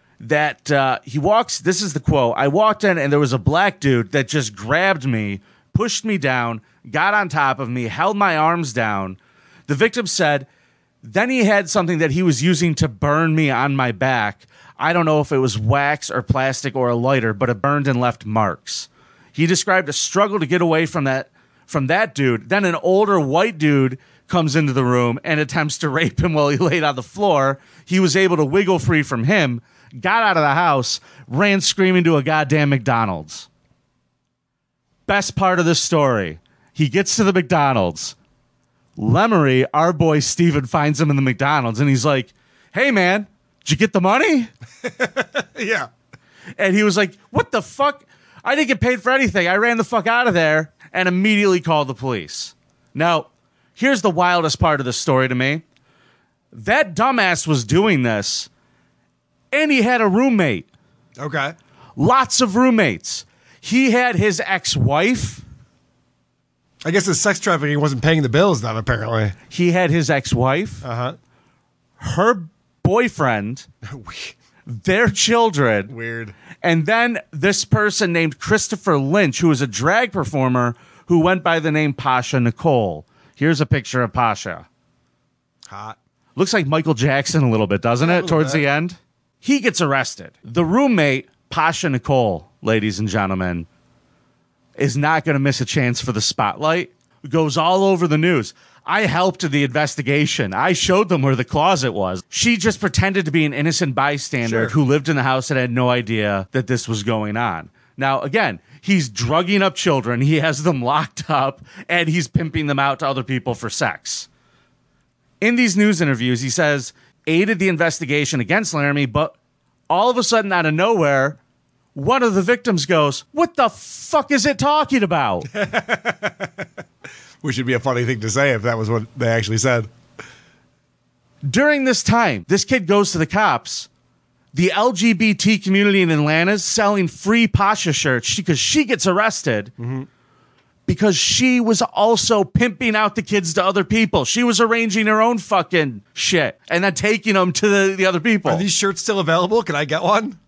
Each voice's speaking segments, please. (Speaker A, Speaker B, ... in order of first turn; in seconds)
Speaker A: 0.2-10.5, 11.0-33.5, 35.1-38.1, 39.0-44.5, 46.6-55.6, 56.5-58.5, 59.5-60.6, 62.0-65.4, 69.5-70.8, 72.0-73.7, 74.7-75.9, 76.6-84.7, 86.3-93.7, 94.8-114.3, 115.4-119.3, 119.9-121.4, 121.9-125.5, 131.4-133.9, 134.5-139.7, 140.9-148.6
Speaker B: 44.8-45.9, 61.2-61.5, 66.8-69.3, 70.8-71.2, 73.8-74.3, 75.9-76.3, 85.7-86.0, 88.0-88.6, 104.4-104.7, 125.5-126.7, 127.4-129.9, 139.8-140.1, 148.4-150.4